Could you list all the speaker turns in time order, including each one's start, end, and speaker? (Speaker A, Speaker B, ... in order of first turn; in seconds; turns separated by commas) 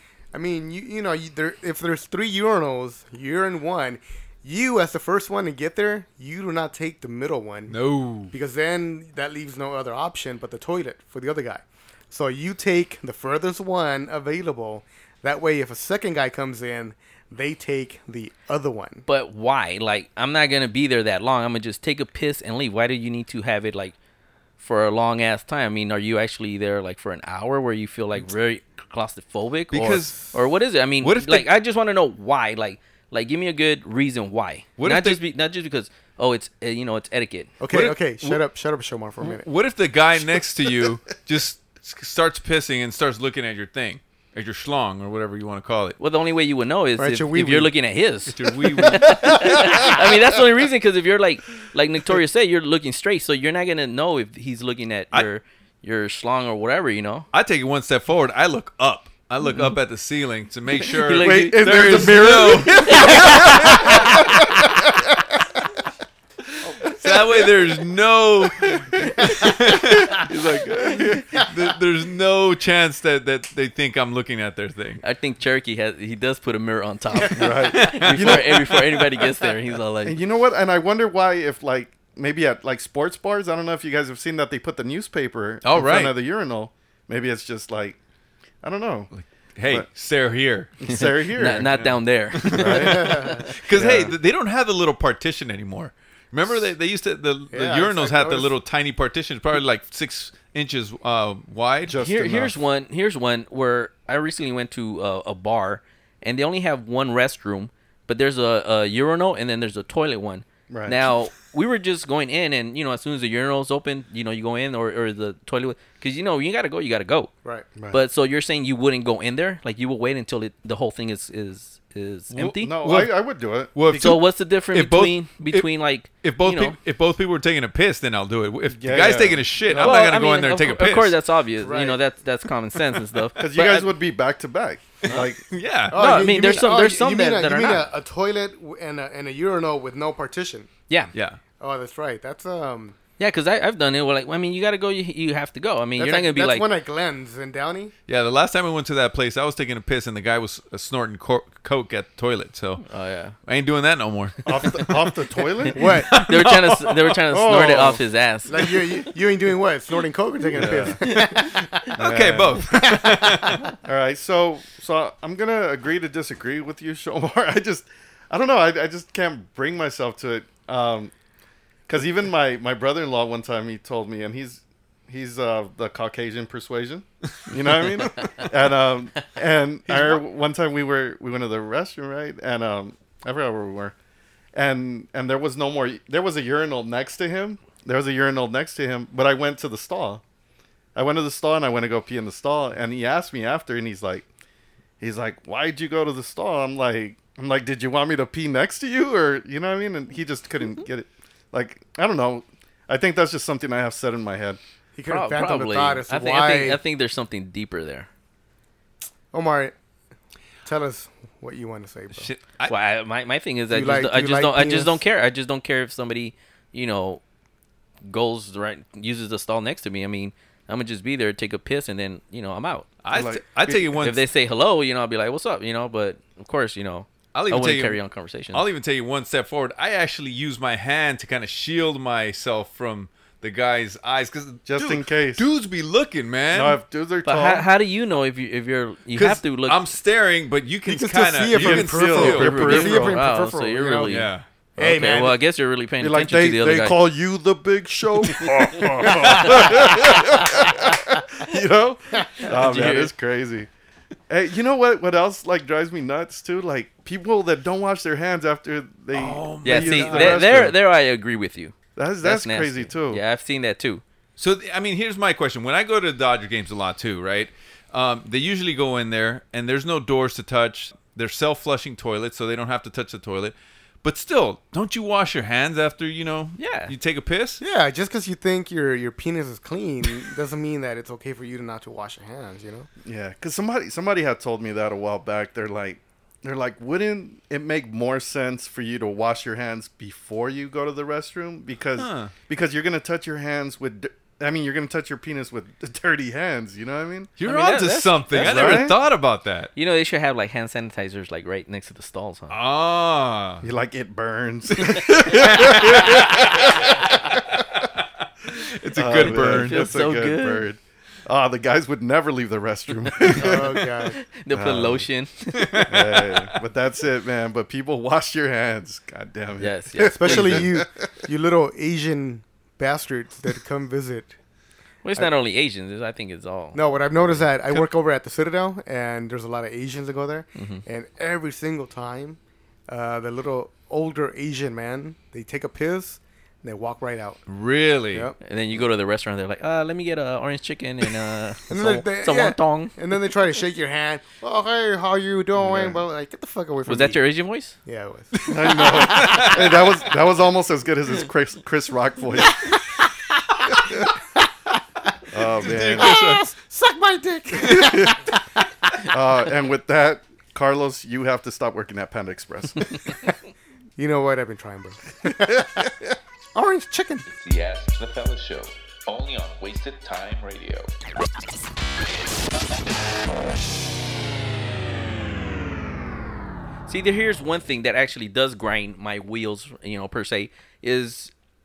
Speaker A: 0.3-7.8, Speaker B: 7.7-8.3, Speaker A: 8.3-19.1, Speaker C: 19.1-23.9, Speaker C: 24.6-37.5, Speaker B: 29.7-30.3, Speaker B: 31.0-31.5, Speaker B: 34.8-35.2, Speaker A: 37.6-39.5, Speaker B: 37.7-38.4, Speaker B: 39.2-46.0, Speaker C: 46.0-57.3, Speaker A: 47.0-47.7, Speaker B: 48.3-50.0, Speaker B: 57.3-64.3, Speaker C: 60.9-62.3, Speaker D: 61.1-65.2, Speaker C: 62.9-63.4, Speaker D: 66.8-67.7, Speaker B: 66.9-75.0, Speaker D: 68.7-71.3, Speaker C: 75.0-80.2, Speaker A: 77.2-77.5, Speaker D: 77.3-79.0, Speaker B: 77.7-78.5, Speaker D: 80.0-88.0, Speaker B: 85.6-86.2, Speaker D: 88.6-89.1, Speaker B: 89.1-90.8, Speaker D: 90.8-91.8, Speaker C: 90.9-93.3, Speaker B: 91.7-102.0, Speaker D: 92.5-93.1, Speaker A: 92.9-93.5, Speaker D: 93.7-94.2, Speaker A: 97.5-98.6, Speaker D: 101.9-102.5, Speaker C: 102.0-117.3, Speaker D: 110.7-111.1, Speaker D: 117.8-118.0, Speaker C: 117.9-122.7, Speaker B: 122.3-123.2, Speaker D: 122.6-124.2, Speaker B: 123.7-131.2, Speaker C: 123.9-126.8, Speaker D: 128.7-130.0, Speaker C: 129.8-133.9, Speaker A: 131.6-132.0, Speaker D: 133.4-135.4, Speaker B: 135.1-136.0, Speaker A: 135.9-140.7, Speaker C: 135.9-137.9, Speaker B: 141.1-141.4, Speaker A: 141.6-143.0, Speaker C: 143.2-146.7, Speaker A: 146.0-147.9, Speaker B: 148.1-152.8, Speaker C: 152.8-153.3, Speaker B: 153.4-154.9, Speaker D: 154.4-156.1, Speaker A: 155.8-156.2, Speaker B: 156.1-156.8, Speaker C: 156.1-158.8, Speaker D: 157.3-158.0, Speaker A: 158.5-161.9, Speaker D: 160.5-161.0, Speaker B: 160.6-163.7, Speaker D: 162.0-162.7, Speaker A: 162.7-163.7, Speaker D: 163.8-171.1, Speaker D: 171.9-183.9, Speaker D: 184.5-190.2, Speaker D: 190.9-194.3, Speaker D: 195.0-204.6, Speaker A: 204.9-206.8, Speaker C: 205.1-208.1, Speaker A: 209.3-209.7, Speaker A: 210.6-212.3, Speaker B: 212.1-212.8, Speaker C: 212.7-217.2, Speaker A: 213.7-215.0, Speaker C: 218.1-222.9, Speaker B: 223.0-224.2, Speaker D: 223.1-224.1, Speaker C: 224.0-228.6, Speaker B: 227.3-228.0, Speaker B: 228.5-236.8, Speaker D: 234.7-235.4, Speaker D: 236.5-237.7, Speaker C: 237.2-239.8, Speaker B: 239.1-242.8, Speaker A: 240.9-244.2, Speaker D: 241.5-243.2, Speaker C: 242.2-247.0, Speaker B: 244.1-244.4, Speaker A: 244.8-245.4, Speaker D: 246.0-253.7, Speaker A: 249.1-250.0, Speaker A: 252.2-252.4, Speaker C: 252.5-253.1, Speaker D: 254.3-260.8, Speaker B: 259.1-260.4, Speaker C: 259.6-264.0, Speaker D: 262.0-263.2, Speaker B: 264.4-277.6, Speaker C: 276.6-276.9, Speaker A: 277.6-282.9, Speaker D: 283.1-297.3, Speaker B: 292.0-292.3, Speaker B: 297.4-299.7, Speaker C: 297.4-298.9, Speaker D: 298.3-299.0, Speaker C: 299.8-302.6, Speaker B: 302.5-303.6, Speaker D: 303.6-307.6, Speaker B: 305.4-306.3, Speaker B: 308.5-309.9, Speaker D: 308.9-313.9, Speaker C: 309.6-310.7, Speaker A: 313.4-314.2, Speaker C: 314.1-315.9, Speaker D: 314.5-315.1, Speaker B: 315.6-316.5, Speaker D: 315.9-320.9, Speaker C: 319.6-320.7, Speaker A: 320.1-324.4, Speaker C: 325.0-327.5, Speaker A: 326.7-337.4, Speaker C: 330.6-330.8, Speaker B: 337.5-338.3, Speaker C: 338.4-342.9, Speaker A: 341.7-347.2, Speaker D: 345.6-346.0, Speaker C: 346.9-347.8, Speaker A: 347.9-348.4, Speaker B: 348.4-349.9, Speaker D: 348.5-352.7, Speaker D: 355.3-356.3, Speaker B: 355.6-356.4, Speaker A: 355.9-358.3, Speaker B: 357.6-357.9, Speaker D: 357.7-358.1, Speaker D: 359.1-363.2, Speaker A: 364.0-365.9, Speaker D: 365.5-365.8, Speaker A: 366.6-367.2, Speaker E: 367.3-370.9, Speaker C: 376.9-381.3